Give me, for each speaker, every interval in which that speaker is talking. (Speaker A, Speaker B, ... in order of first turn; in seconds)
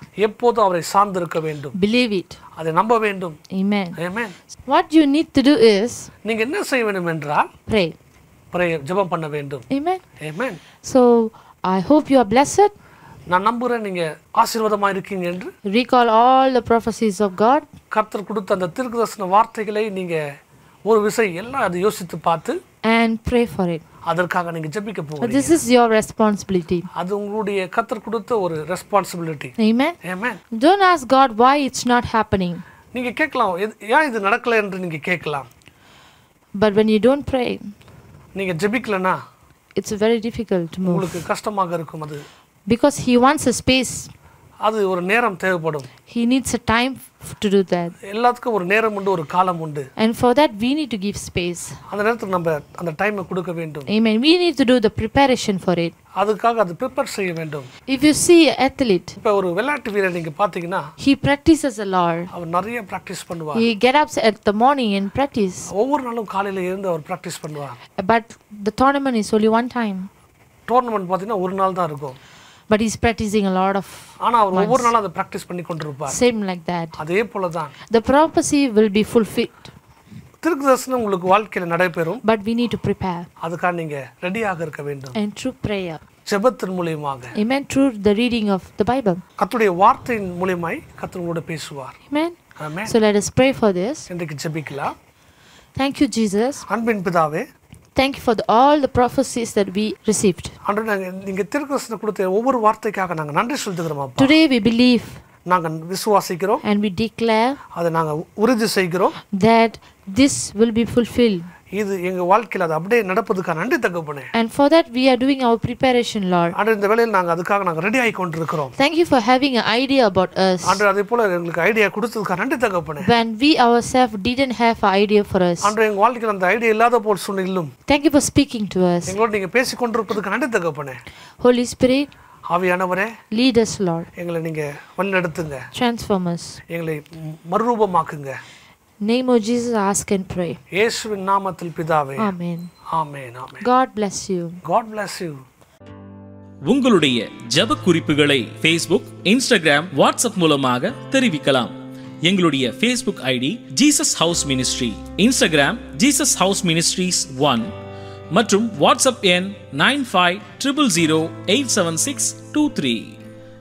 Speaker A: 0.2-1.8, 2.5-3.4, 4.0-4.3, 6.2-7.5, 8.5-9.7, 10.2-10.6, 13.3-15.5, 17.9-20.2, 20.9-22.6, 24.1-25.6, 26.9-30.4, 32.9-35.5, 38.3-39.2, 40.9-42.2, 44.6-45.9, 48.0-49.9, 51.9-53.9, 56.1-57.7, 59.2-60.9, 62.3-63.7, 65.7-67.8, 70.7-72.2, 74.2-76.2, 77.0-77.7, 80.4-82.2, 83.4-85.2, 86.2-87.3, 89.4-92.0, 92.6-92.9, 94.1-94.9, 96.7-97.4, 100.6-104.4, 105.5-106.6, 107.7-109.2, 111.7-114.3, 116.5-118.7, 120.6-123.1, 125.6-127.7, 129.1-131.0, 132.5-133.1, 134.2-135.6, 136.7-138.4, 140.7-142.3, 142.9-143.7, 144.6-145.4
Speaker B: 1.7-2.4, 3.5-4.0, 4.7-6.1, 7.7-7.9, 9.7-10.0, 10.8-12.7, 15.7-17.7, 22.8-23.8, 25.2-26.9, 29.6-29.9, 30.5-32.6, 36.5-37.7, 39.8-41.2, 42.7-44.1, 46.1-47.9, 50.0-51.8, 53.9-55.9, 57.9-59.2, 61.0-62.3, 63.5-65.7, 68.0-70.1, 72.7-74.9, 76.1-77.0, 77.8-79.7, 82.2-83.3, 85.1-86.0, 87.3-89.2, 92.1-94.1, 95.8-96.6, 97.9-100.5, 104.2-105.2, 106.6-107.6, 109.3-111.5, 114.3-116.5, 118.8-120.8, 123.0-125.7, 127.9-129.2, 131.4-132.1, 133.3-134.1, 135.7-136.6, 139.0-140.6, 142.2-142.7, 143.6-144.6
Speaker C: 146.6-157.7, 158.3-163.2